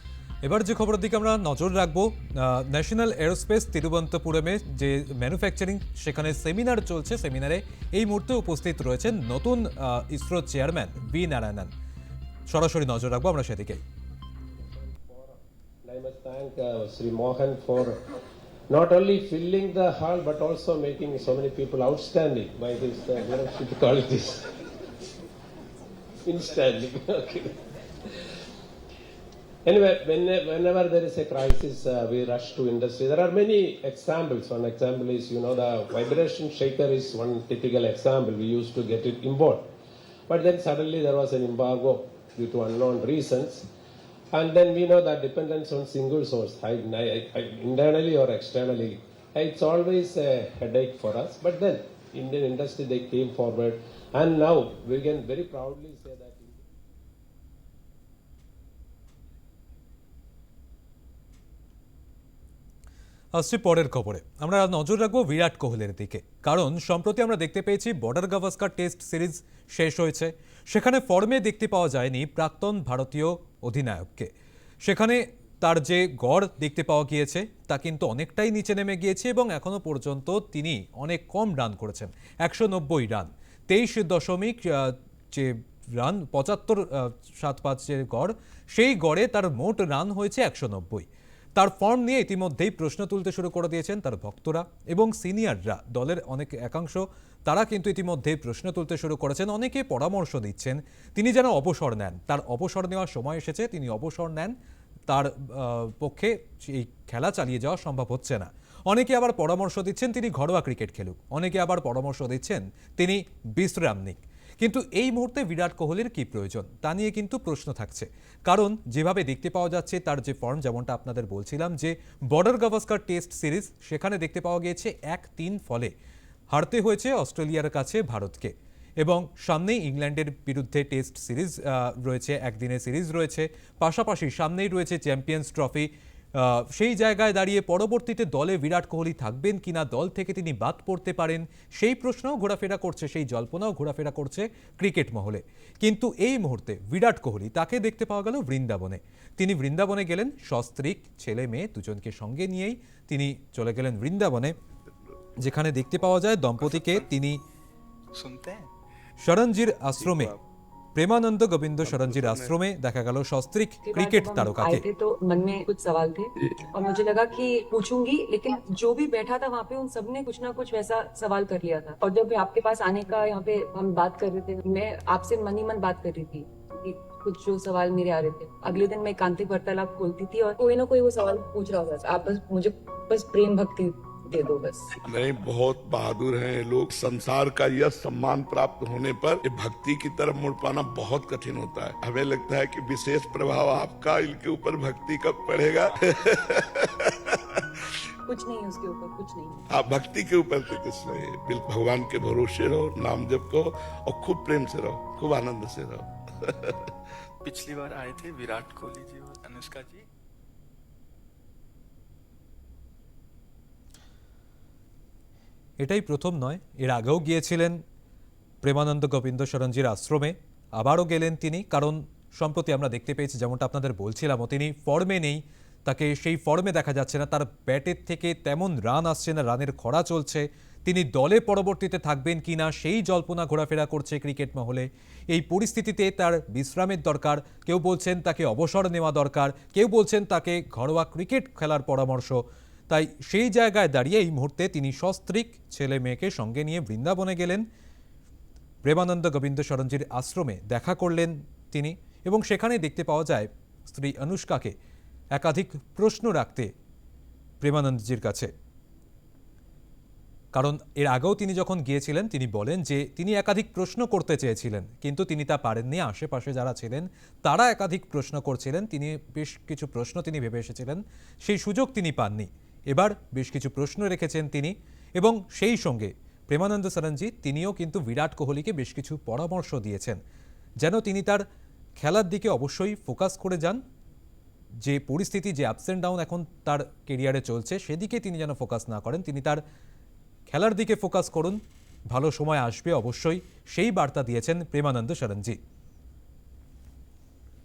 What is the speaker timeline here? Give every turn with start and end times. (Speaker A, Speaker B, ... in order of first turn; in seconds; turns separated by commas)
Speaker A: 0.4-11.7, Speaker A: 12.5-13.8, Speaker B: 14.7-17.9, Speaker B: 18.7-24.5, Speaker B: 26.2-27.5, Speaker B: 29.6-39.6, Speaker B: 40.3-43.6, Speaker B: 44.3-56.6, Speaker A: 63.3-74.3, Speaker A: 74.8-104.5, Speaker A: 105.1-125.9, Speaker A: 126.5-154.5, Speaker A: 155.4-157.4, Speaker C: 156.7-157.0, Speaker C: 158.1-158.7, Speaker A: 159.2-160.3, Speaker D: 160.0-160.4, Speaker A: 160.9-164.8, Speaker D: 161.8-162.6, Speaker E: 163.8-184.9, Speaker D: 166.4-166.7, Speaker D: 185.0-197.3, Speaker E: 198.3-199.7, Speaker D: 199.7-206.9, Speaker C: 207.4-210.1, Speaker A: 215.8-217.8, Speaker A: 218.6-247.6, Speaker A: 248.8-254.7, Speaker A: 255.3-256.7, Speaker A: 257.6-258.5, Speaker A: 260.5-280.2, Speaker A: 280.8-281.4, Speaker A: 282.0-283.8, Speaker A: 284.8-289.6, Speaker A: 290.5-291.6, Speaker A: 292.1-295.6